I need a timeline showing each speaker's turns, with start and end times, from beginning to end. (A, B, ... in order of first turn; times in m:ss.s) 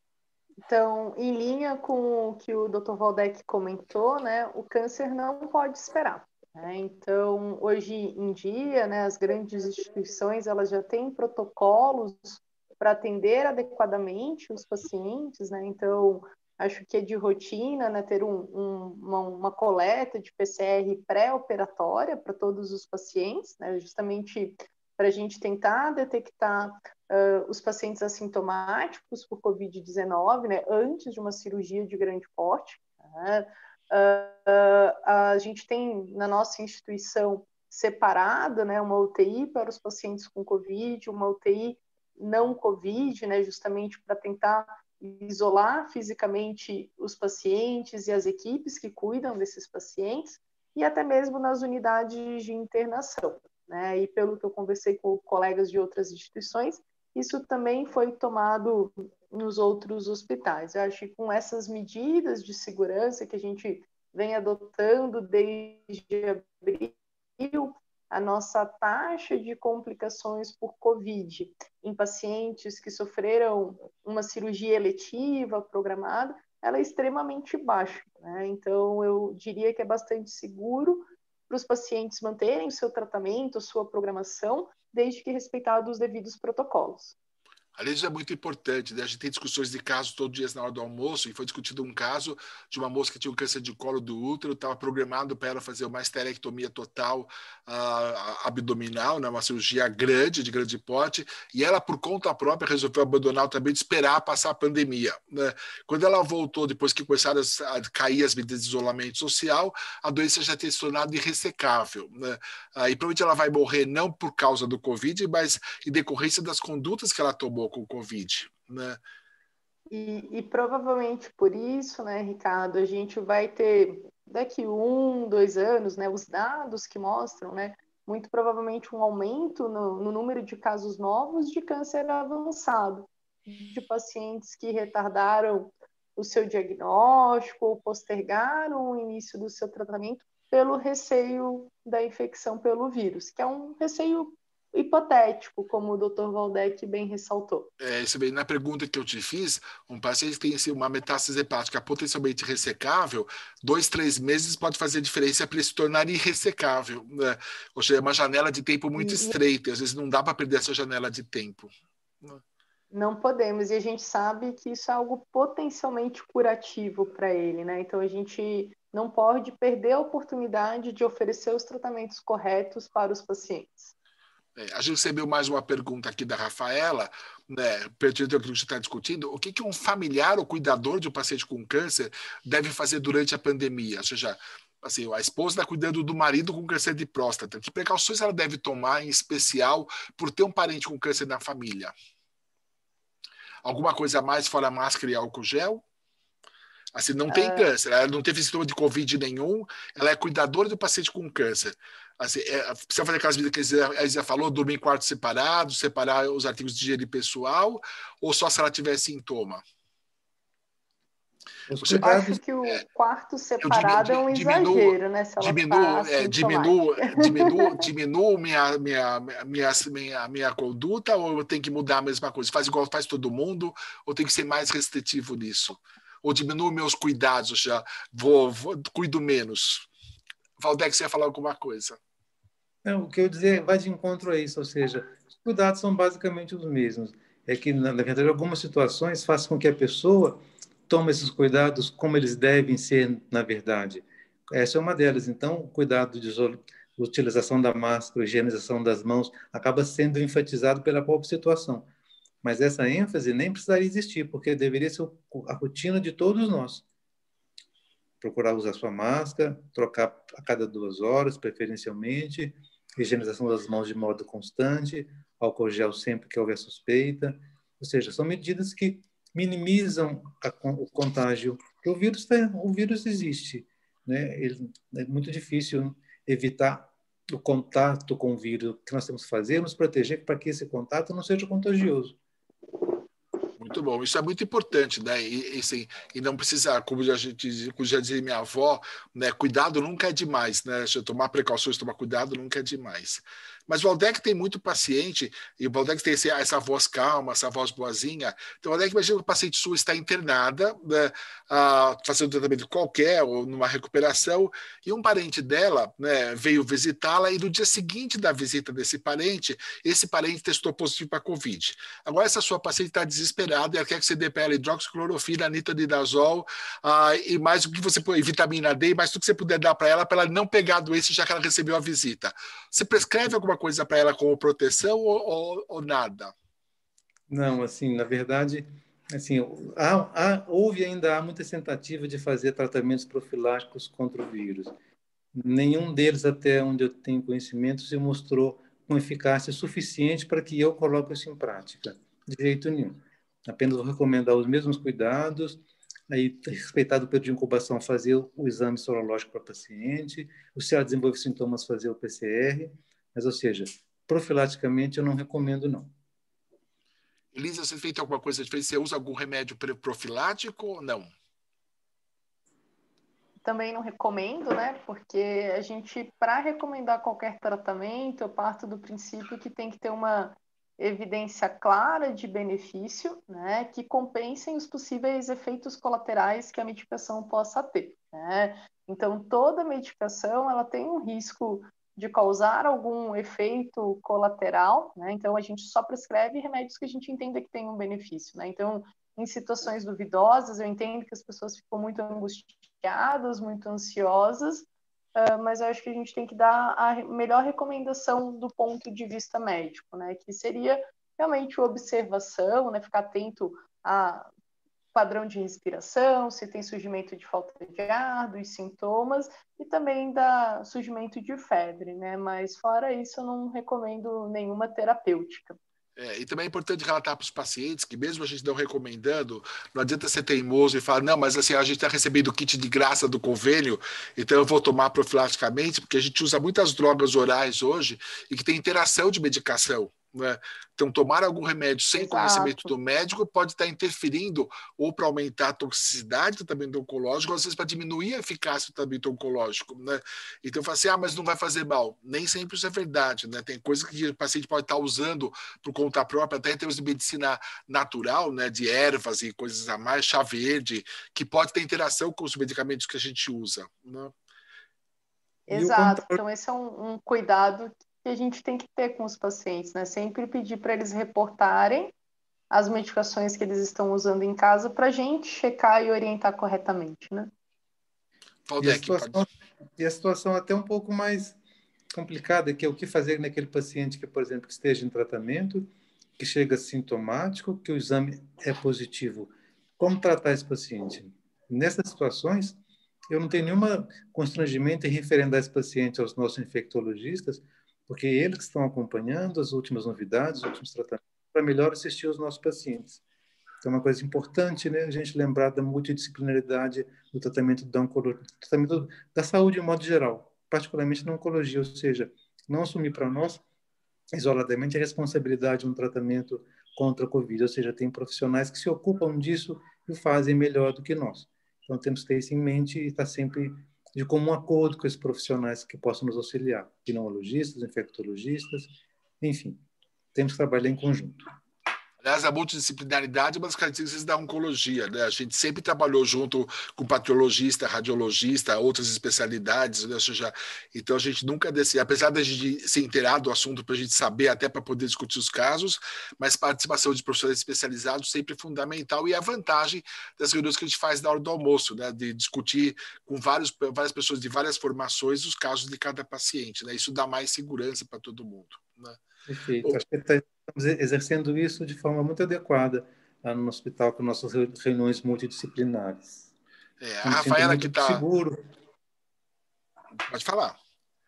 0:00.7-1:27.2 A
1:27.8-1:59.0 B
1:59.9-2:27.7 A
2:27.8-2:41.7 B
2:39.0-2:39.3 A
2:42.9-2:53.9 A
2:54.6-3:11.9 B
3:13.6-3:15.8 B
3:16.9-3:29.6 B
3:17.3-3:17.7 A
3:31.7-3:32.4 C
3:31.9-3:37.9 A
3:33.6-3:49.9 B
3:50.6-3:52.0 B
3:52.8-4:11.9 C
4:12.4-4:16.8 C
4:18.2-4:42.2 C
4:43.6-5:26.3 B
5:27.3-5:34.7 C
5:35.4-5:55.9 C
5:57.3-6:01.1 B
6:03.4-6:44.3 A
6:44.9-6:55.6 A
6:56.0-7:34.1 B
7:12.0-7:12.7 A
7:35.5-7:41.9 A
7:35.5-7:36.2 C
7:42.5-7:47.3 A
7:48.5-7:49.2 B
7:48.6-7:51.4 C
7:51.9-8:02.6 C
8:03.1-8:13.0 C
8:13.6-8:23.4 C
8:24.1-8:39.6 C
8:40.1-8:41.3 C
8:42.0-9:09.0 B
9:09.3-9:16.3 C
9:16.8-9:18.0 B
9:17.0-9:18.4 C
9:20.1-9:20.6 B